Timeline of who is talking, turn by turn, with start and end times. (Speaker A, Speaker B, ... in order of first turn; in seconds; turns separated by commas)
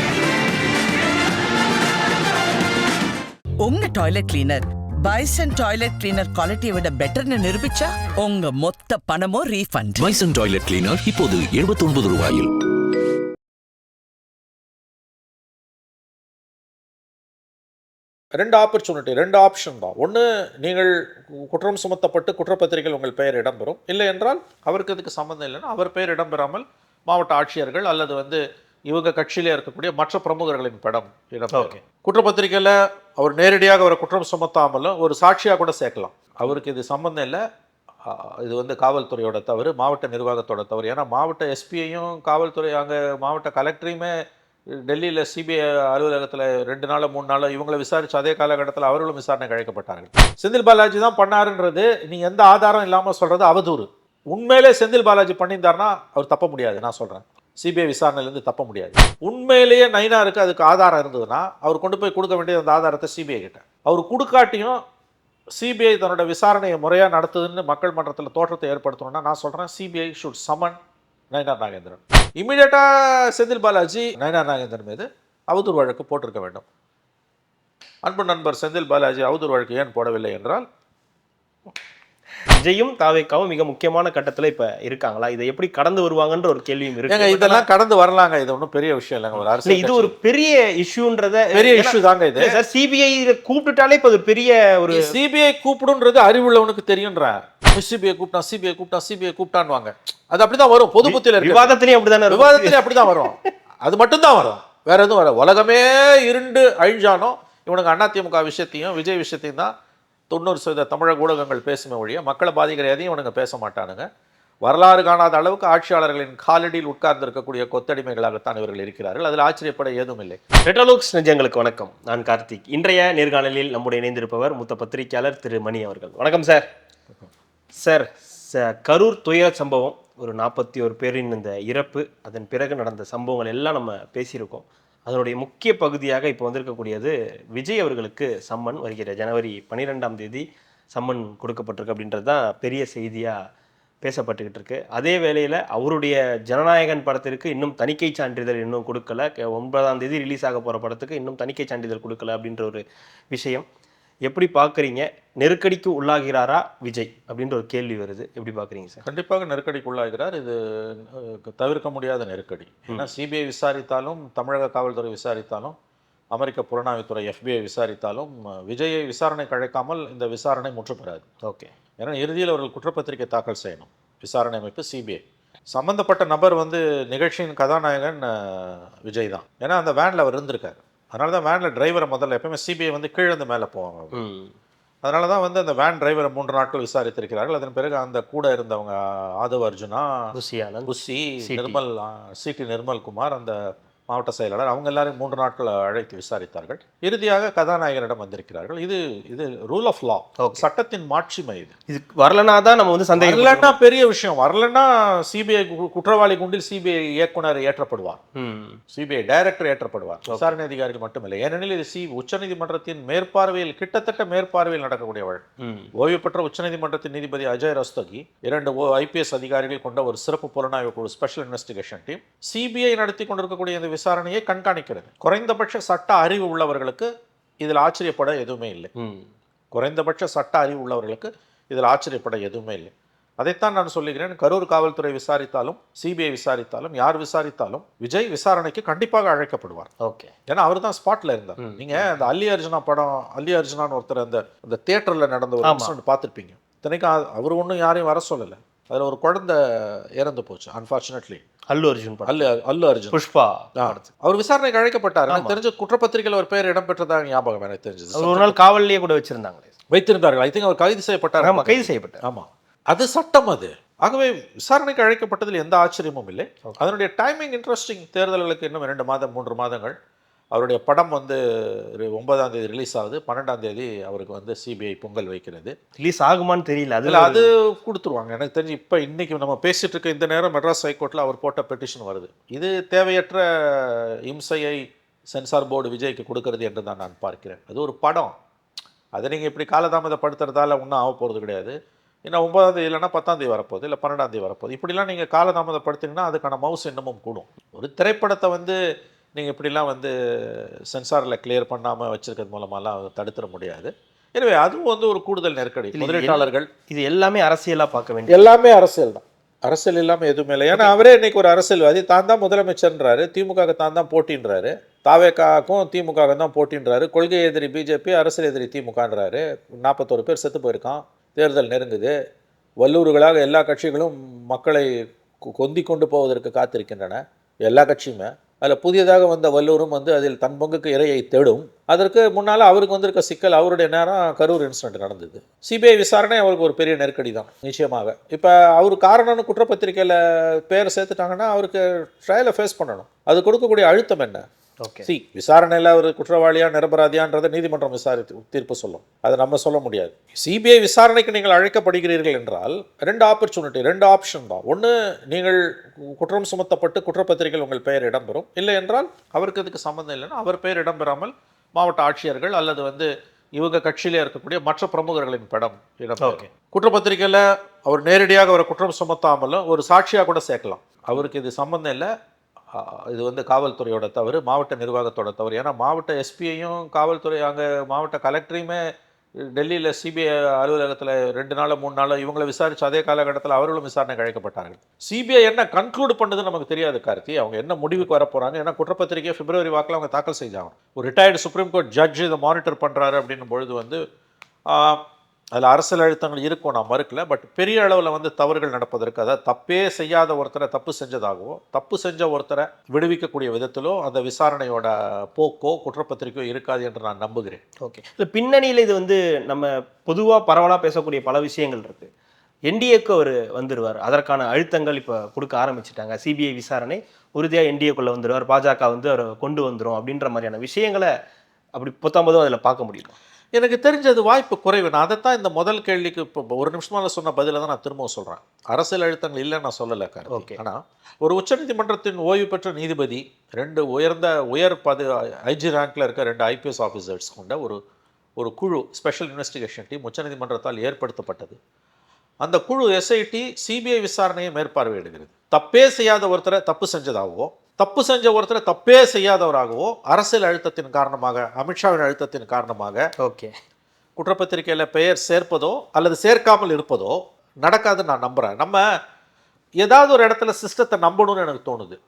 Speaker A: 3.6-10.1, Speaker B: 10.0-12.5, Speaker C: 18.4-37.4, Speaker D: 31.5-31.8, Speaker C: 38.0-44.2, Speaker C: 44.7-64.8, Speaker C: 65.6-70.8, Speaker C: 71.3-76.6, Speaker C: 78.0-80.6, Speaker D: 82.5-87.7, Speaker C: 87.1-90.1, Speaker D: 89.5-95.2, Speaker C: 91.5-92.6, Speaker C: 94.9-101.7, Speaker D: 101.0-103.4, Speaker C: 102.3-109.7, Speaker C: 110.3-114.0, Speaker C: 114.6-120.4, Speaker D: 120.6-126.7, Speaker D: 127.8-143.3, Speaker D: 144.0-153.7, Speaker D: 154.3-159.0, Speaker C: 159.0-165.7, Speaker C: 166.3-171.2, Speaker D: 171.4-171.7, Speaker C: 172.0-184.2, Speaker D: 184.1-184.5, Speaker C: 185.0-190.3, Speaker D: 190.3-190.9, Speaker C: 190.8-193.6, Speaker D: 191.4-191.8, Speaker C: 194.1-201.7, Speaker D: 200.4-200.6, Speaker D: 201.9-203.8, Speaker C: 203.2-208.2, Speaker D: 208.3-208.8, Speaker C: 208.9-215.4, Speaker D: 210.3-210.5, Speaker D: 215.6-215.9, Speaker C: 216.0-227.1, Speaker C: 227.6-228.9, Speaker D: 229.0-229.3, Speaker C: 229.7-239.9, Speaker D: 240.0-240.3, Speaker C: 240.5-251.4, Speaker D: 241.6-242.1, Speaker D: 245.6-245.9, Speaker D: 251.7-252.5, Speaker C: 252.2-253.2, Speaker D: 253.1-254.1, Speaker C: 253.8-258.6, Speaker D: 255.3-255.6, Speaker D: 258.1-259.7, Speaker C: 259.9-269.9, Speaker D: 261.4-262.2, Speaker C: 270.5-275.7, Speaker D: 276.0-277.4, Speaker C: 277.0-288.3, Speaker C: 289.1-291.7, Speaker C: 292.3-298.8, Speaker C: 299.4-306.7, Speaker D: 305.9-308.5, Speaker C: 308.3-322.1, Speaker D: 310.7-311.0, Speaker C: 322.8-324.9, Speaker C: 325.4-344.4, Speaker D: 344.8-345.1, Speaker C: 345.1-372.1, Speaker D: 366.2-366.5, Speaker C: 372.7-378.8, Speaker C: 379.5-394.0, Speaker C: 394.7-395.0, Speaker C: 395.5-407.6, Speaker D: 407.8-412.1, Speaker D: 412.7-421.1, Speaker D: 421.8-423.1, Speaker C: 423.5-437.8, Speaker D: 430.3-430.6, Speaker C: 438.4-441.6, Speaker C: 442.4-453.0, Speaker D: 453.2-453.5, Speaker C: 454.2-458.8, Speaker C: 459.8-462.0